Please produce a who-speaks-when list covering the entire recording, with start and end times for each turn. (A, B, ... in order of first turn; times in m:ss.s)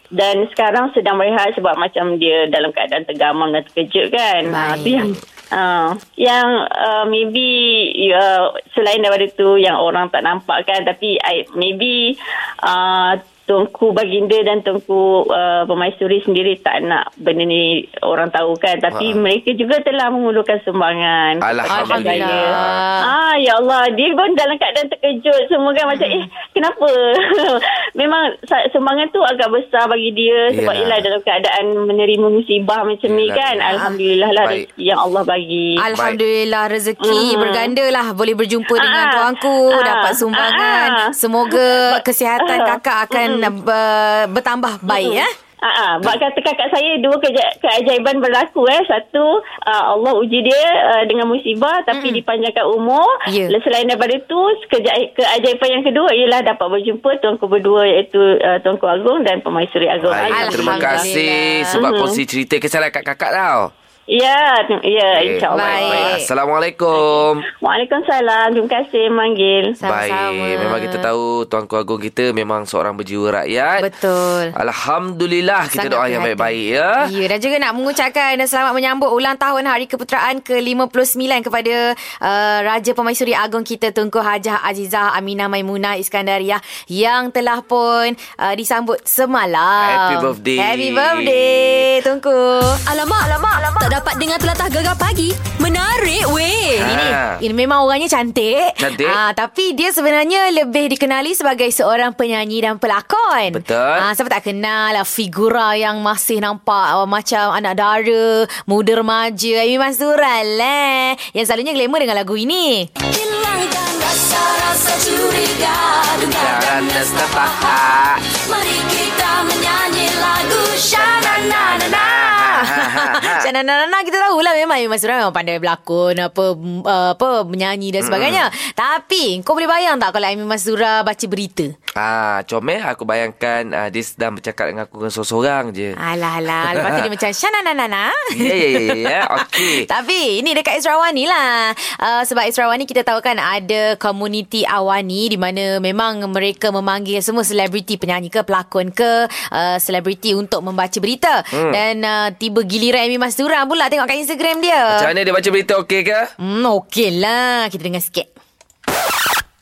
0:00.2-0:22.5 A
0:04.5-0:05.1 B
0:18.9-0:19.2 C
0:21.4-0:22.9 C
0:21.7-0:23.1 B
0:23.0-0:35.8 A
0:25.9-0:26.3 B
0:30.5-0:31.0 C
0:33.1-0:33.8 C
0:35.8-0:45.3 B
0:35.9-0:36.2 C
0:37.0-0:37.8 A
0:38.7-0:43.5 A
0:44.9-1:01.1 A
0:51.9-0:52.2 B
0:53.3-0:53.5 B
1:00.0-1:03.7 C
1:00.3-1:01.8 B
1:01.7-1:02.2 A
1:04.1-1:06.2 A
1:05.1-1:07.4 C
1:05.5-1:06.3 B
1:07.1-1:09.8 A
1:09.8-1:11.1 B
1:09.8-1:13.9 C
1:13.8-1:14.5 B
1:14.6-1:17.0 C
1:15.8-1:32.8 B
1:29.8-1:31.9 C
1:32.8-1:37.1 D
1:36.8-1:37.4 C
1:37.4-1:52.9 B
1:38.8-1:39.2 C
1:43.5-1:44.1 C
1:53.0-1:57.8 D
1:56.3-1:58.2 C
1:58.4-2:01.0 D
2:00.9-2:03.5 C
2:01.0-2:11.7 B
2:08.0-2:08.5 C
2:12.0-2:16.0 C
2:16.0-2:35.1 B
2:16.6-2:17.1 C
2:18.3-2:19.9 C
2:31.5-2:31.8 C
2:34.9-2:36.3 C
2:36.4-2:38.3 B